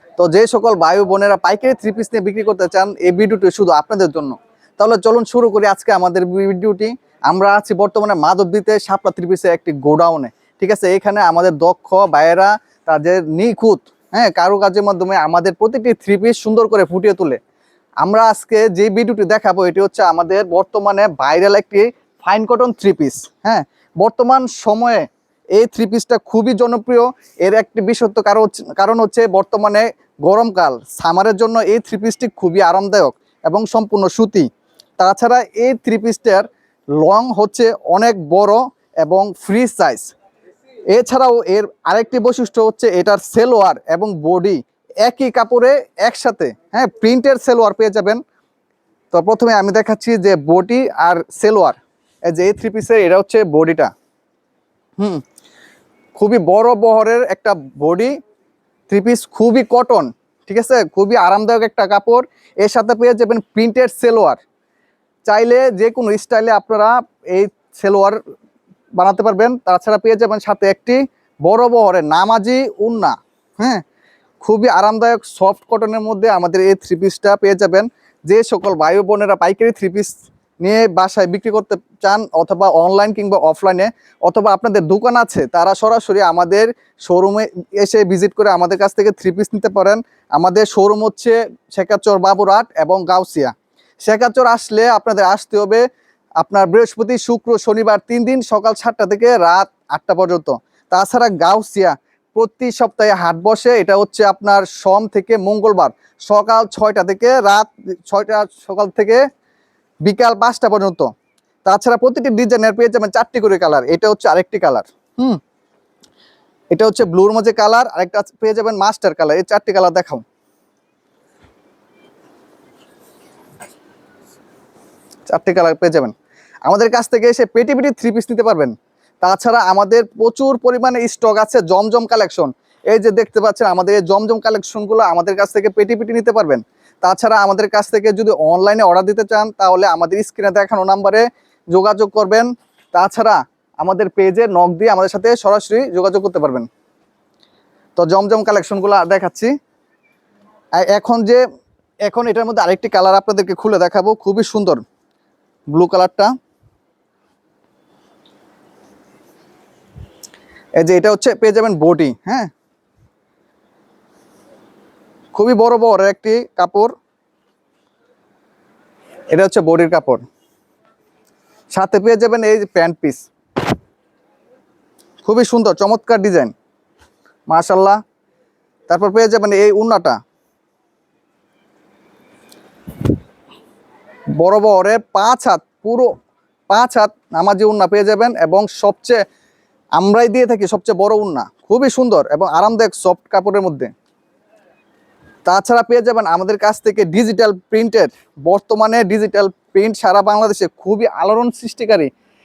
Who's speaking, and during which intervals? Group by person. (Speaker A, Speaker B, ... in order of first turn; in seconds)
Speaker A: 0.2-17.4, 18.0-34.5, 35.0-40.1, 40.9-48.2, 49.1-53.9, 55.0-55.2, 56.2-58.2, 58.9-64.4, 65.3-68.2, 69.0-73.8, 74.4-80.1, 80.6-93.5, 94.0-95.8, 96.4-109.2, 110.0-111.1, 111.7-115.4, 116.7-120.2, 125.3-126.1, 126.7-146.7, 148.0-149.5, 150.8-151.4, 152.1-154.8, 155.7-156.3, 160.8-162.5, 165.3-166.9, 169.3-170.2, 171.7-173.3, 175.2-176.5, 177.5-178.0, 178.9-180.2, 184.4-186.1, 186.7-189.2, 190.0-193.9, 195.5-202.1